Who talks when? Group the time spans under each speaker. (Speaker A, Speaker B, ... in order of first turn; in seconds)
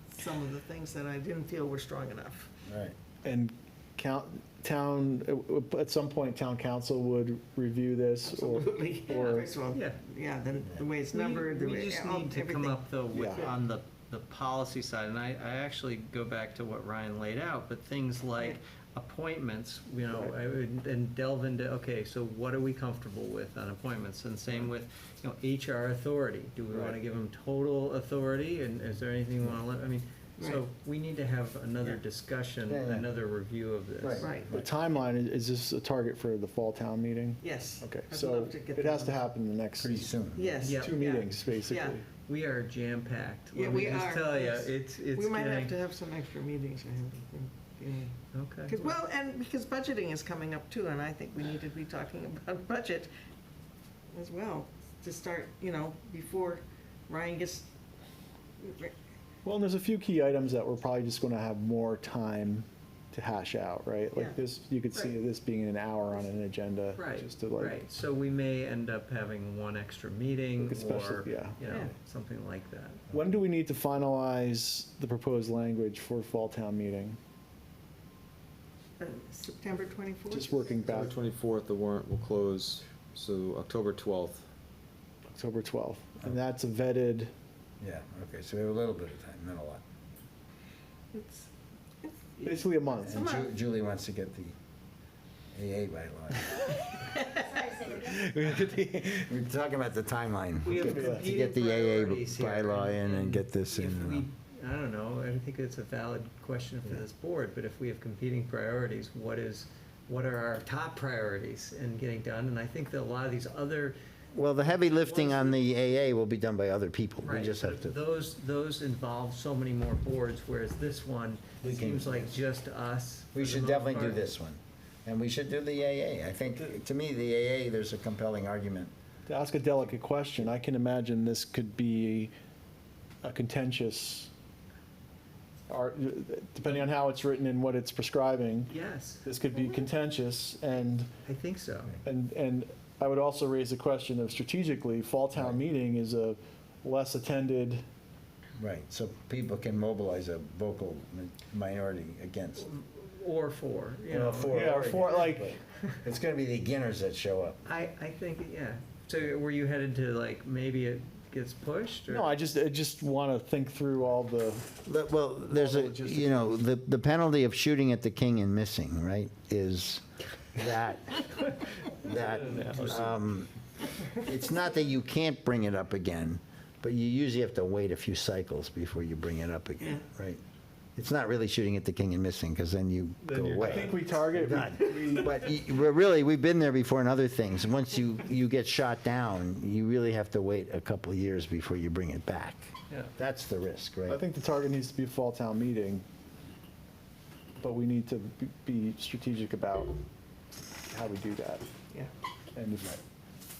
Speaker A: 0.1-2.5, 8.3-12.8, 34.2-34.5, 37.4-39.2, 40.3-42.0, 43.5-48.1, 48.7-53.1, 54.1-57.7, 58.6-58.9, 79.0-80.8, 91.1-91.5, 92.0-93.5, 96.9-98.1, 179.8-180.0
Speaker B: 2.7-2.9, 32.7-33.1, 34.0-34.7, 39.8-40.5, 87.8-89.8, 93.1-94.5, 95.5-96.6, 99.2-104.3, 114.3-117.9, 121.6-122.3, 123.3-128.9, 148.6-152.7, 154.1-157.6, 164.8-173.5, 174.2-180.4, 180.9-192.6, 193.2-194.2
Speaker C: 3.2-9.5, 13.1-13.4, 34.5-40.0, 40.7-42.0, 59.4-67.8, 70.6-71.6, 73.1-77.2, 80.3-81.1, 85.3-87.3, 92.4-93.2, 98.0-99.2, 100.7-101.3, 129.3-132.3, 133.2-134.3, 135.7-138.7, 139.2-141.1, 142.0-147.8, 154.5-155.6, 162.1-164.8, 165.5-166.5, 172.4-173.0, 183.3-185.3, 194.1-196.0, 197.6-199.9, 200.9-201.7, 202.5-203.0
Speaker D: 9.7-10.0, 11.1-34.4, 40.6-41.0, 42.2-45.7, 48.3-49.0, 67.0-73.0, 100.6-114.0, 114.9-115.6, 117.2-124.3, 138.7-139.2, 141.2-141.9, 152.6-154.6, 157.7-162.3, 172.1-173.1
Speaker E: 80.8-84.5